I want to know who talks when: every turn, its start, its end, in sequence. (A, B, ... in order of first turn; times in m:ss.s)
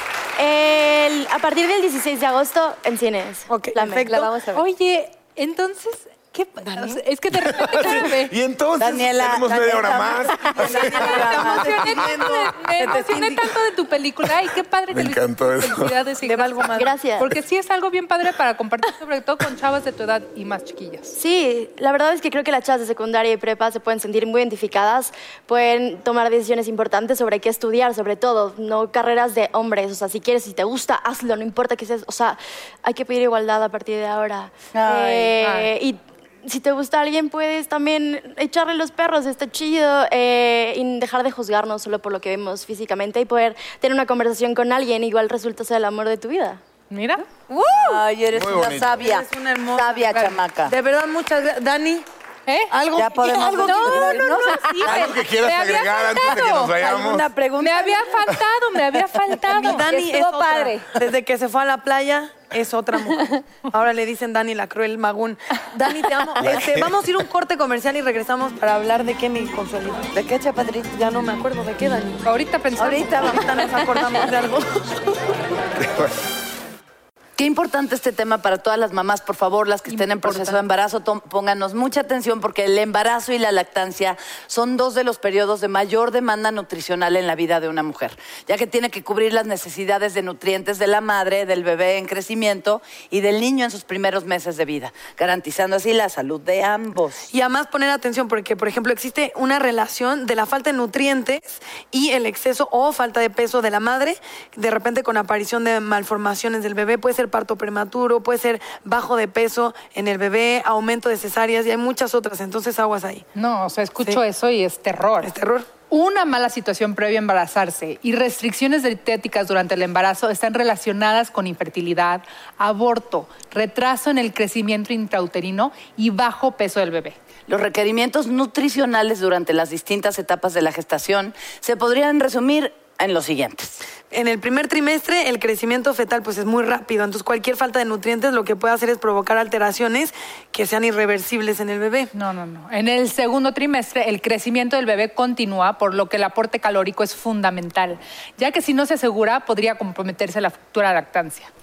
0:00.4-0:04.1 A
0:03.5-0:04.3 B
0:04.0-0:04.6 C
0:04.5-0:08.3 D
0:06.6-0:07.0 B
0:07.3-0:11.4 E
0:08.8-0:12.0 F
0:09.6-0:13.5 B
0:10.6-0:21.2 D
0:14.9-0:16.0 E
0:16.2-0:17.0 B
0:16.8-0:17.3 A
0:21.2-0:46.6 A
0:34.7-0:35.4 F
0:35.4-0:35.7 D
0:46.9-0:48.0 D
0:47.6-0:50.7 F
0:48.3-0:49.0 E
0:48.9-0:52.0 B
0:52.5-0:52.7 D
0:52.7-0:54.4 B
0:53.0-0:55.1 F
0:53.4-0:56.7 D
0:54.8-0:57.3 E
0:56.4-0:58.1 F
0:57.6-0:59.9 D
0:59.5-1:10.1 B
0:59.6-1:00.9 C
1:06.4-1:07.0 E
1:10.1-1:10.9 F
1:10.9-1:12.3 B
1:12.2-1:13.4 D
1:12.8-1:13.5 F
1:13.1-1:15.0 B
1:15.8-1:16.2 E
1:17.4-1:37.2 F
1:19.9-1:20.6 D
1:37.3-1:53.3 B
1:53.4-1:55.3 D
1:55.2-1:55.7 B
1:55.9-2:07.2 D
2:07.5-2:13.8 F
2:14.1-2:22.1 B
2:22.1-2:31.5 D